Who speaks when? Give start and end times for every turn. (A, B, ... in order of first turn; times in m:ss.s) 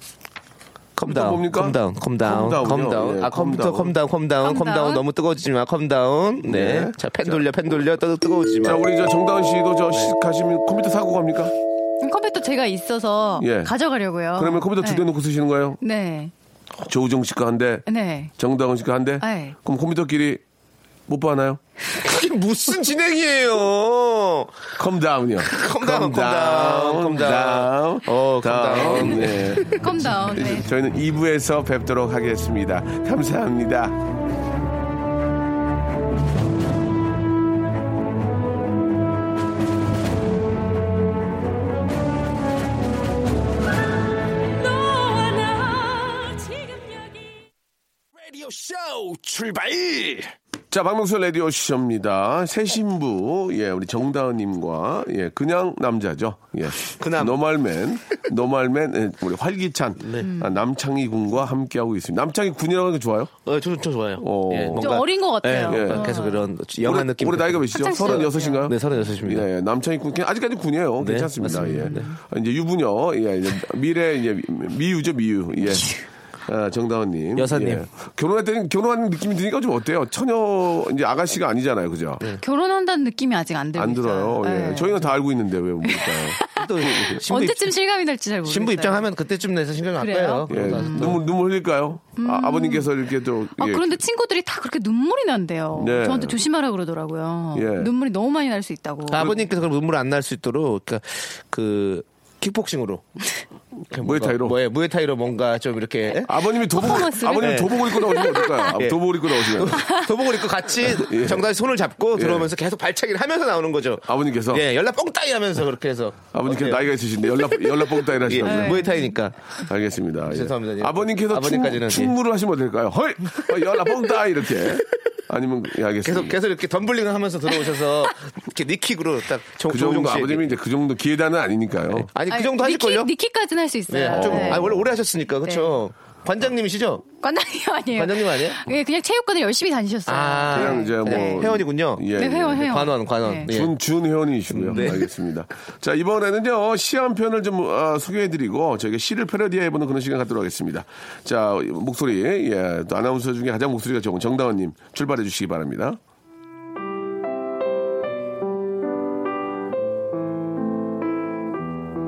0:01.0-0:08.8 A
0:01.1-0:04.0 B
0:04.4-0:05.0 C
0:06.4-0:07.4 B
0:08.6-0:11.5 B
0:12.0-0:15.1 C
0:13.4-0:13.7 B
0:14.3-0:15.8 B
0:15.8-0:16.3 C
0:16.8-0:17.8 B
0:17.9-0:18.3 C
0:18.4-0:20.4 B
0:19.2-0:19.6 C
0:21.1-0:21.6 B
0:22.0-0:24.6 A
0:24.8-0:34.0 B
0:25.4-0:29.8 A
0:29.7-0:30.7 C
0:45.4-0:45.7 A
0:48.2-0:50.3 A
0:50.7-1:03.3 B
0:56.9-0:57.4 A
1:00.0-1:00.3 A
1:00.2-1:00.6 C
1:03.4-1:09.5 A
1:04.2-1:05.0 B
1:04.8-1:06.5 C
1:05.7-1:06.2 B
1:06.8-1:22.2 B
1:07.7-1:08.7 C
1:11.0-1:12.1 A
1:11.5-1:12.1 C
1:17.4-1:17.8 A
1:22.4-1:25.1 C
1:23.8-1:26.4 B
1:25.8-1:29.1 C
1:26.5-1:27.7 A
1:28.4-1:31.2 A
1:30.0-1:31.2 C
1:30.5-1:34.0 B
1:32.2-1:32.9 C
1:33.6-1:39.3 C
1:35.8-1:36.4 B
1:37.5-1:37.9 B
1:39.1-1:43.0 A
1:39.2-1:39.4 B
1:43.9-1:46.3 A
1:44.0-1:44.6 B
1:46.2-1:49.8 B
1:46.8-1:48.7 C
1:47.3-1:47.8 A
1:48.8-1:56.9 A
1:49.8-1:50.1 C
1:50.8-1:51.5 B
1:52.1-1:52.5 B
1:54.0-1:54.6 B
1:56.3-1:58.9 B
1:58.2-1:59.4 A
1:58.4-1:59.1 C
1:59.6-2:06.4 B
2:00.3-2:02.2 A
2:06.0-2:10.5 A
2:09.7-2:12.1 B
2:11.9-2:13.1 A
2:12.3-2:14.7 C
2:13.9-2:17.0 A
2:14.1-2:14.9 B
2:15.4-2:15.8 C
2:17.2-2:21.6 C
2:17.9-2:18.6 A
2:20.1-2:23.7 A
2:20.5-2:22.8 B
2:22.2-2:23.5 C
2:23.4-2:36.0 B
2:24.5-2:25.0 A